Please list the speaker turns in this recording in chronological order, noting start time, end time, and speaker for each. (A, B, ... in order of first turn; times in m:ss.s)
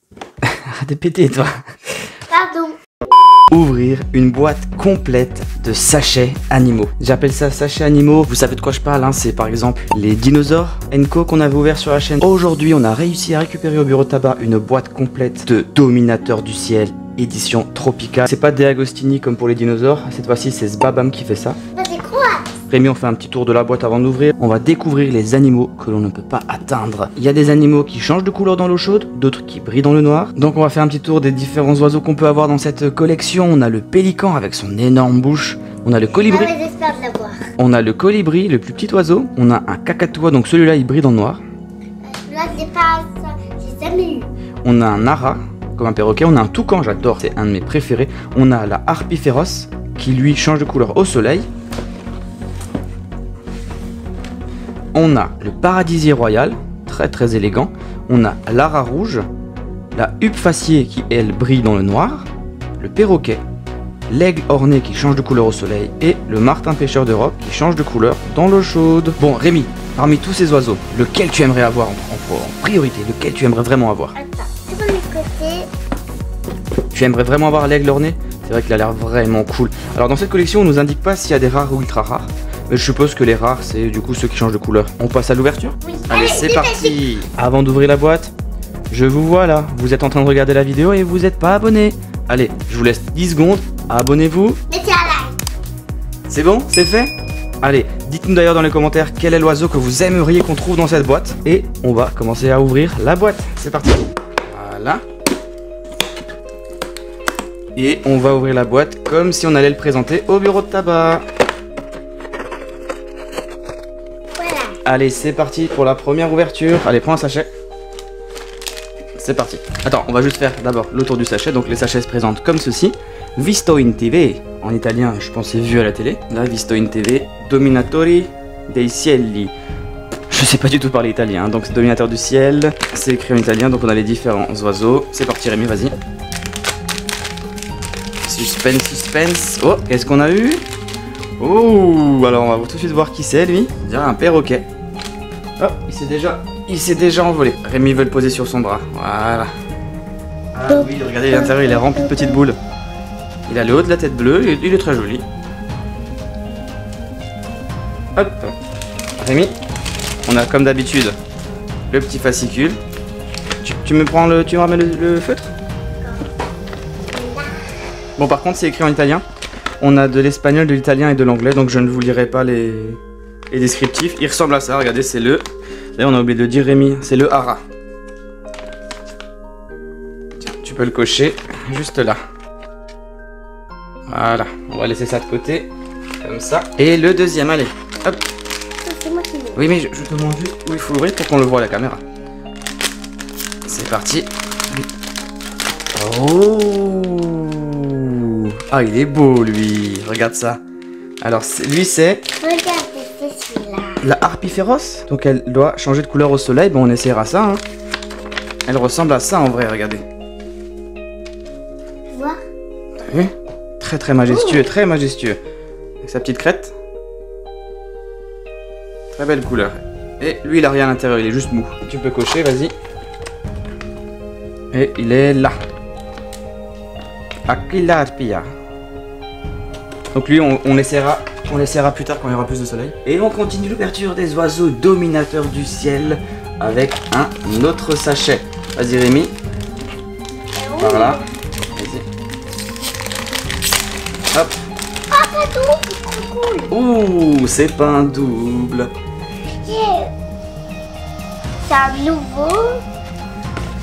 0:00.4-0:01.6 A
0:02.3-0:02.8 B
0:03.5-0:21.6 A
0:21.7-0:22.5 B
0:22.7-0:36.5 A
0:36.1-0:37.4 B
0:37.6-0:41.4 A
0:42.0-0:44.3 B
0:44.6-0:51.5 A
0:54.9-0:59.3 A
0:59.9-1:02.3 A
1:02.8-1:03.4 A
1:04.1-1:14.1 A
1:14.1-1:15.7 B
1:16.9-1:28.3 A
1:25.8-1:27.0 B
1:28.9-1:34.6 A
1:34.7-1:35.4 B
1:36.3-1:45.0 A
1:47.8-1:51.2 A
1:54.4-1:54.8 B
1:54.8-1:57.5 A
1:59.2-2:09.5 A
2:10.3-2:16.0 A
2:18.2-2:20.6 A
2:21.4-2:24.6 A
2:25.6-2:29.5 A
2:30.5-2:32.6 A
2:30.7-2:32.4 B
2:33.5-2:35.2 A
2:38.2-2:38.5 A
2:39.2-2:39.5 A
2:40.2-2:41.2 A
2:41.9-2:42.8 A
2:43.6-2:45.5 A
2:47.1-2:47.7 B
2:48.2-2:49.2 A
2:49.8-2:53.0 A
2:53.5-2:55.4 A
2:56.0-2:57.6 A
3:00.4-3:02.2 A
3:04.1-3:05.7 A
3:06.2-3:08.2 A
3:08.8-3:09.6 B
3:09.6-3:12.0 A
3:13.6-3:14.8 A
3:15.9-3:20.6 A
3:21.2-3:22.2 A
3:22.4-3:24.0 B
3:24.0-3:27.6 A
3:28.7-3:30.0 A
3:32.1-3:32.4 B
3:33.0-3:35.4 A
3:34.2-3:34.7 B
3:36.0-3:36.7 A
3:39.1-3:42.7 A
3:44.7-3:45.5 A
3:47.5-3:48.5 A
3:50.1-3:59.3 A
4:00.5-4:01.2 B
4:00.8-4:01.2 A
4:01.7-4:02.0 A
4:05.1-4:06.7 B
4:06.7-4:08.9 A
4:09.6-4:10.1 B
4:11.6-4:12.8 B